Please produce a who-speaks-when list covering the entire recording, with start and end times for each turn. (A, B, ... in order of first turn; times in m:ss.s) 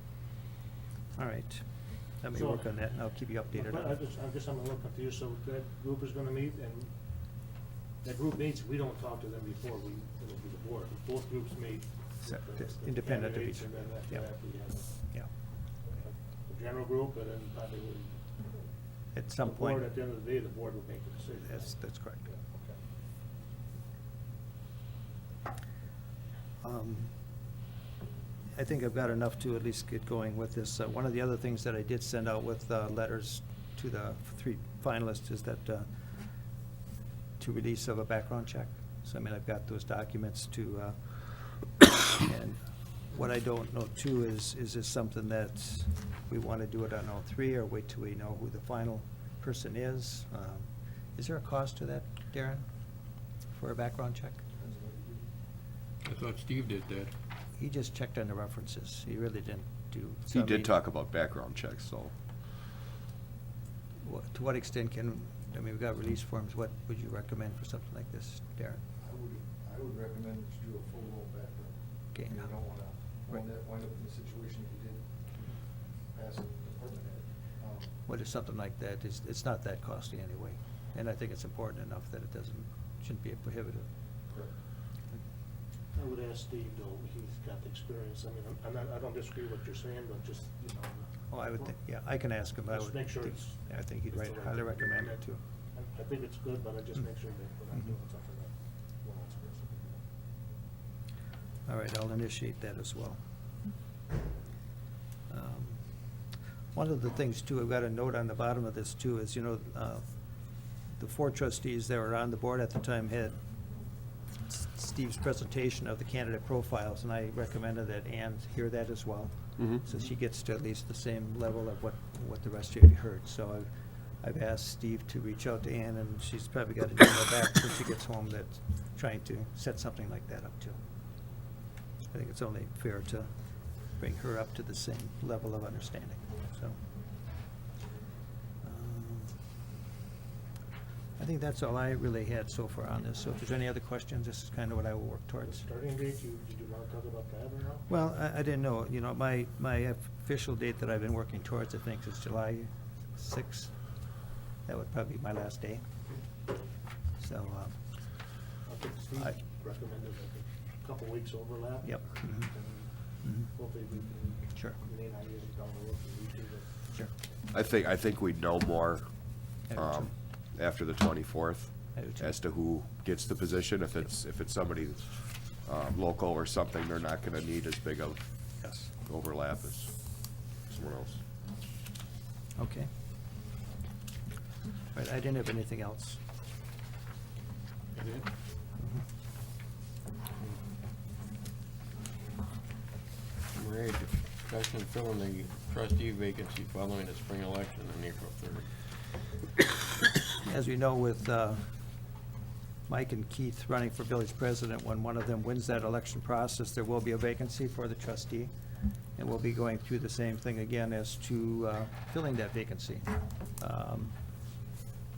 0:01.2-0:03.9 A
0:02.3-0:02.9 B
0:03.5-0:15.1 B
0:12.2-0:14.3 A
0:15.0-0:15.3 A
0:15.9-0:18.4 B
0:19.1-0:19.8 A
0:19.4-0:21.8 B
0:21.5-0:22.3 A
0:26.6-0:27.1 A
0:28.5-0:35.9 A
0:37.4-0:41.6 A
0:42.2-0:42.6 A
0:43.1-0:52.6 A
0:53.5-0:54.4 A
0:54.8-0:55.1 C
0:56.0-0:57.1 D
0:57.6-1:00.7 A
1:00.3-1:02.1 E
1:04.0-1:08.8 A
1:09.0-1:11.7 C
1:12.1-1:12.5 A
1:12.3-1:15.1 C
1:16.1-1:17.9 C
1:18.0-1:23.9 A
1:25.9-1:31.7 B
1:31.3-1:35.4 A
1:32.7-1:40.0 B
1:41.7-1:43.2 A
1:45.3-1:45.8 A
1:46.7-1:50.0 A
1:51.0-1:53.4 A
1:54.5-2:03.7 A
1:59.6-1:59.8 E
2:04.2-2:10.8 A
2:12.1-2:13.3 A
2:14.0-2:16.8 A
2:18.6-2:19.3 A
2:21.2-2:25.6 A
2:25.4-2:27.9 B
2:27.9-2:33.7 A
2:34.6-2:35.8 A
2:37.2-2:37.7 A
2:38.6-2:47.1 B
2:41.8-2:42.5 A
2:43.2-2:43.5 A
2:47.5-3:01.2 E
2:49.7-2:50.1 A
2:51.9-2:52.3 A
2:58.6-2:58.9 A
3:02.6-3:02.9 A
3:04.9-3:06.2 A
3:08.0-3:08.2 D
3:08.8-3:09.0 A
3:13.5-3:18.7 D
3:20.4-3:21.7 A
3:22.9-3:28.5 A
3:29.2-3:34.1 A